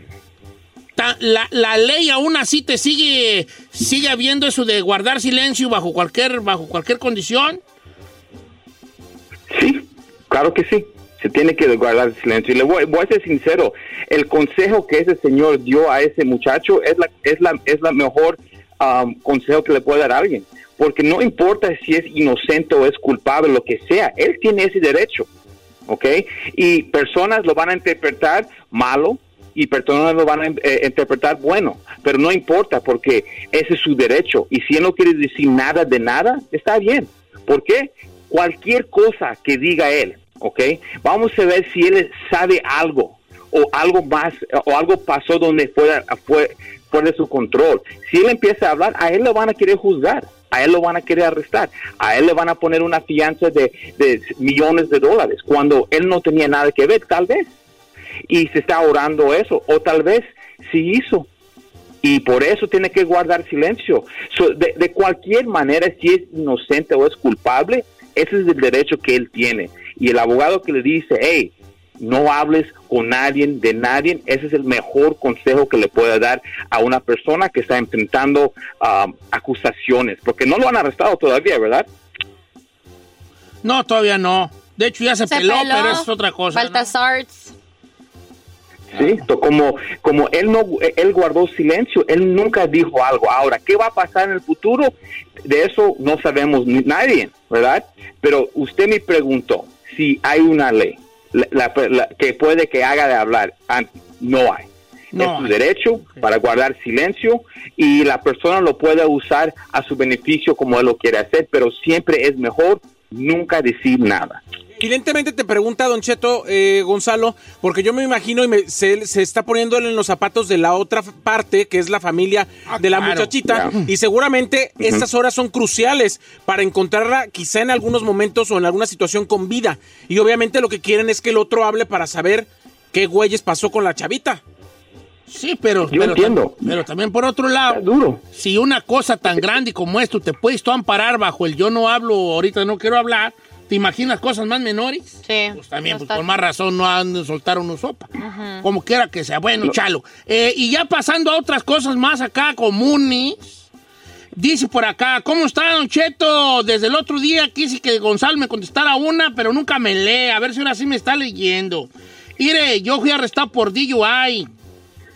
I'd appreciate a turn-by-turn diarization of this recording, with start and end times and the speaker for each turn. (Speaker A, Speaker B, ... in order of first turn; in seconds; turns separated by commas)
Speaker A: 1.0-7.6, Speaker B: 9.5-25.3, Speaker B: 25.9-57.5, Speaker B: 58.3-61.3, Speaker B: 62.0-81.9, Speaker A: 83.6-86.9, Speaker C: 85.3-87.5, Speaker B: 88.9-114.4, Speaker A: 105.1-105.6, Speaker D: 114.8-134.4, Speaker A: 122.7-123.9, Speaker B: 123.5-123.7, Speaker A: 135.3-148.1, Speaker B: 135.9-136.7, Speaker B: 137.7-138.2, Speaker C: 145.2-146.2, Speaker C: 148.2-148.6, Speaker A: 148.6-153.6, Speaker A: 154.3-164.5